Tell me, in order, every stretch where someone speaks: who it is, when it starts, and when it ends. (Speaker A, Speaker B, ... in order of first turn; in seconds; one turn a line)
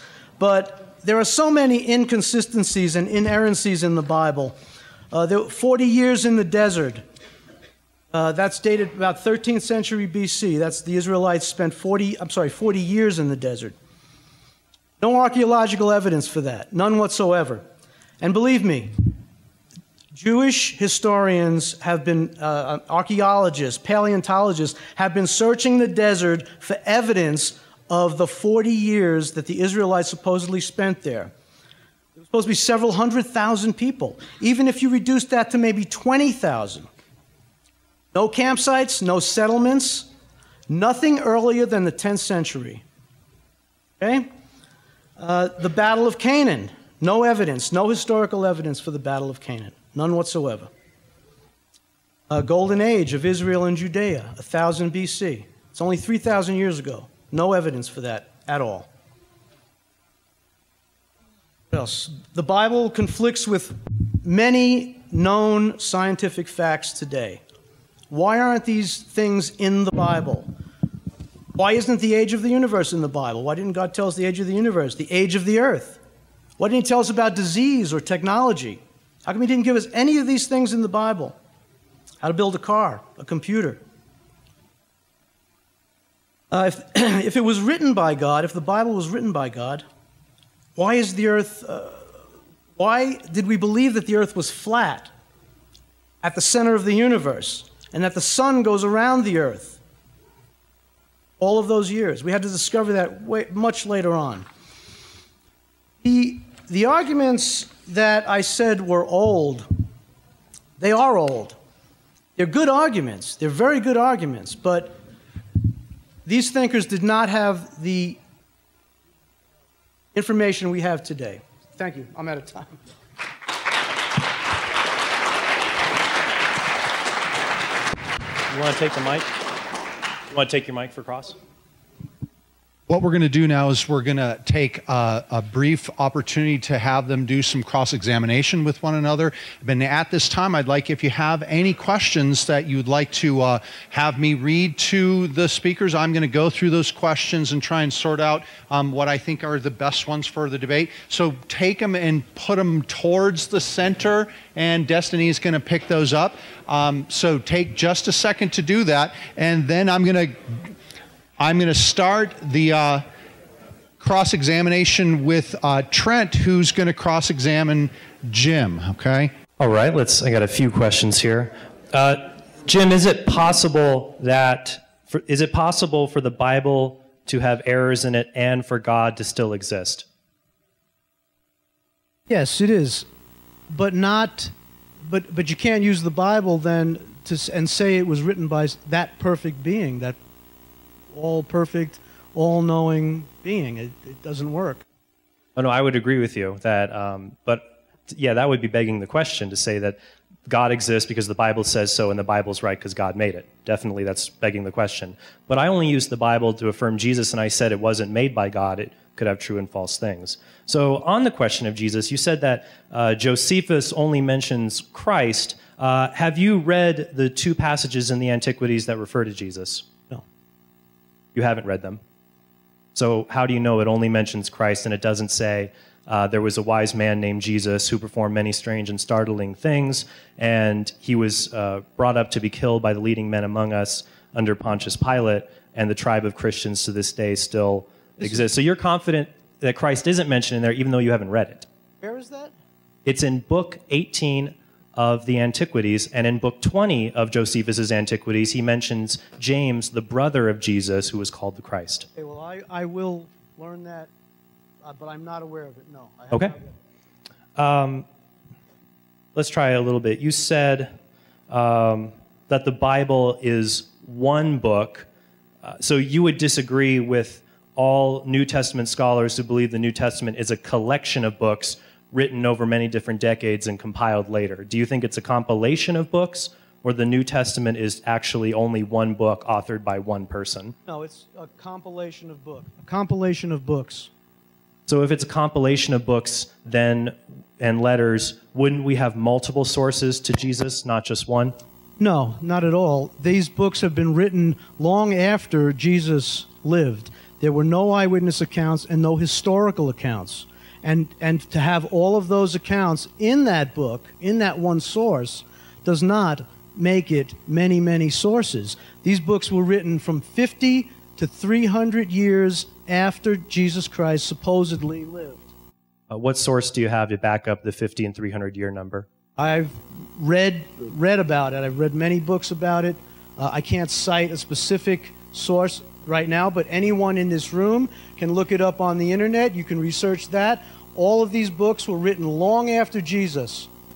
Speaker A: 0.4-4.5
Speaker A: 5.1-7.0
Speaker A: 8.1-13.8
Speaker A: 15.0-17.6
Speaker A: 18.2-19.1
Speaker A: 20.1-31.3
Speaker A: 32.1-36.9
Speaker A: 38.1-40.1
Speaker A: 40.7-42.8
Speaker A: 44.0-44.3
Speaker A: 45.2-50.7
Speaker A: 52.3-58.9
Speaker A: 61.7-67.4
Speaker A: 68.1-70.5
Speaker A: 71.5-76.0
Speaker A: 76.6-81.4
Speaker A: 82.2-83.8
Speaker A: 86.5-89.8
Speaker A: 90.8-92.1
Speaker A: 92.8-95.1
Speaker A: 96.2-99.8
Speaker A: 101.4-104.5
Speaker A: 106.0-109.7
Speaker A: 110.8-111.6
Speaker A: 112.4-115.0
Speaker A: 116.2-118.2
Speaker A: 120.1-122.8
Speaker B: 128.5-129.3
Speaker B: 130.3-131.4
Speaker C: 132.9-160.7
Speaker C: 161.4-163.1
Speaker C: 164.0-169.3
Speaker B: 169.6-180.1
Speaker A: 182.3-183.1
Speaker A: 183.7-184.5
Speaker A: 185.1-190.2
Speaker A: 191.1-194.8
Speaker B: 195.6-219.9
Speaker B: 221.3-222.0
Speaker B: 222.9-241.7
Speaker A: 242.0-242.6
Speaker B: 243.1-252.1
Speaker A: 252.2-254.1
Speaker A: 254.8-256.7
Speaker B: 257.6-258.1
Speaker B: 259.4-260.9
Speaker B: 261.5-265.1
Speaker B: 265.6-280.8
Speaker A: 280.9-284.1
Speaker B: 284.9-291.6
Speaker A: 292.0-315.5
Speaker B: 316.1-319.1
Speaker A: 319.4-333.7